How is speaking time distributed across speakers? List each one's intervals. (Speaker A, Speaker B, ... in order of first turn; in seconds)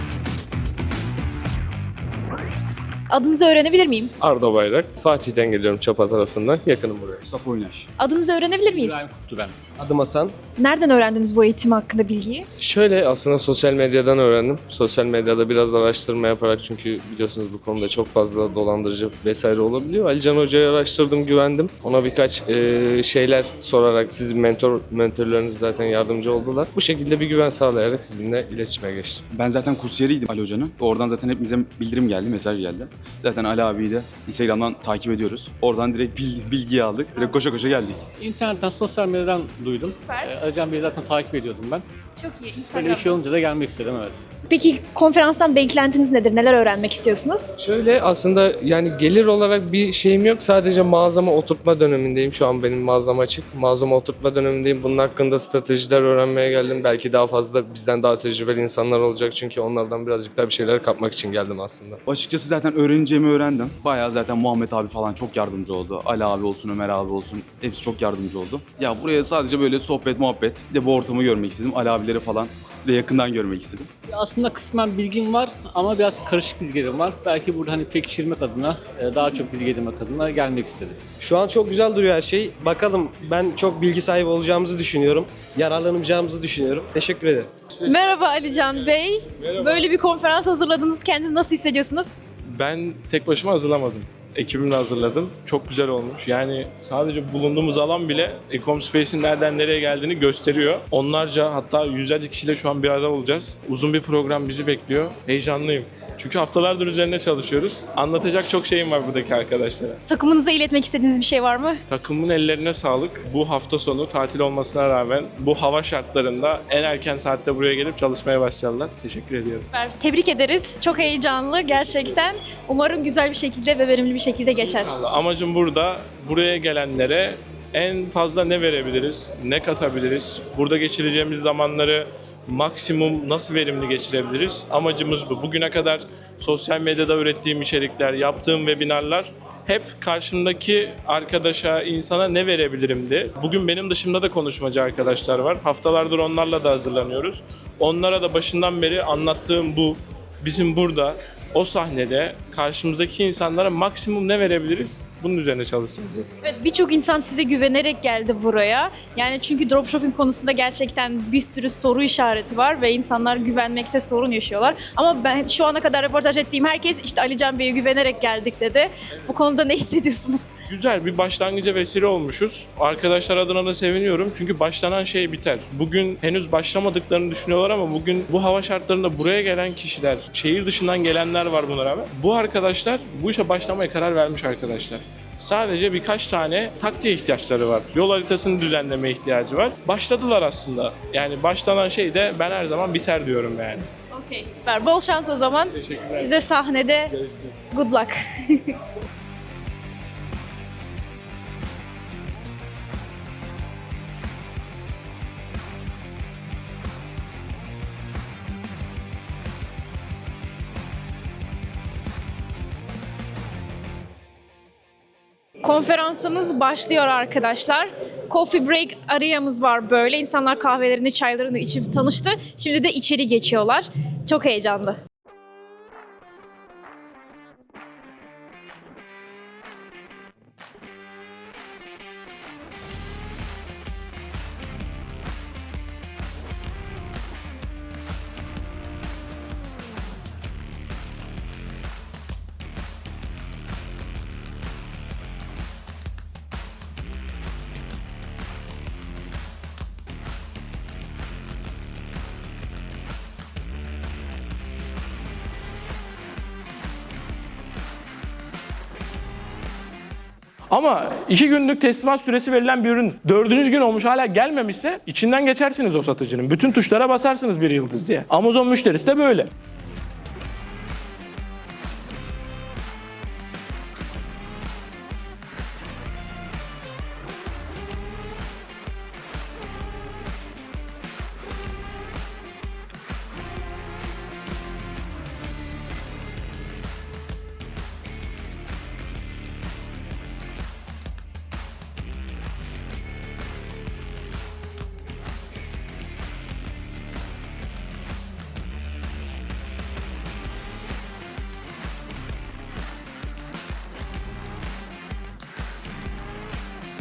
Speaker A: 3.1-4.1, 8.0-9.1, 10.6-12.5, 40.0-40.3, 42.2-43.2, 44.5-47.6, 87.8-92.2, 110.1-111.8, 119.7-124.9, 156.4-170.5, 194.1-197.1, 197.7-198.8, 215.6-225.0
Speaker B: 4.2-7.2, 12.6-29.2, 47.6-62.0
Speaker C: 7.3-7.9, 29.3-38.0, 62.1-73.9
Speaker D: 8.7-9.6, 38.2-41.9, 42.7-44.2, 74.1-81.0
Speaker E: 9.8-10.3, 81.2-87.5
Speaker F: 92.5-110.0, 111.9-119.7, 124.6-156.3, 170.6-193.9, 197.2-197.6, 260.7-269.5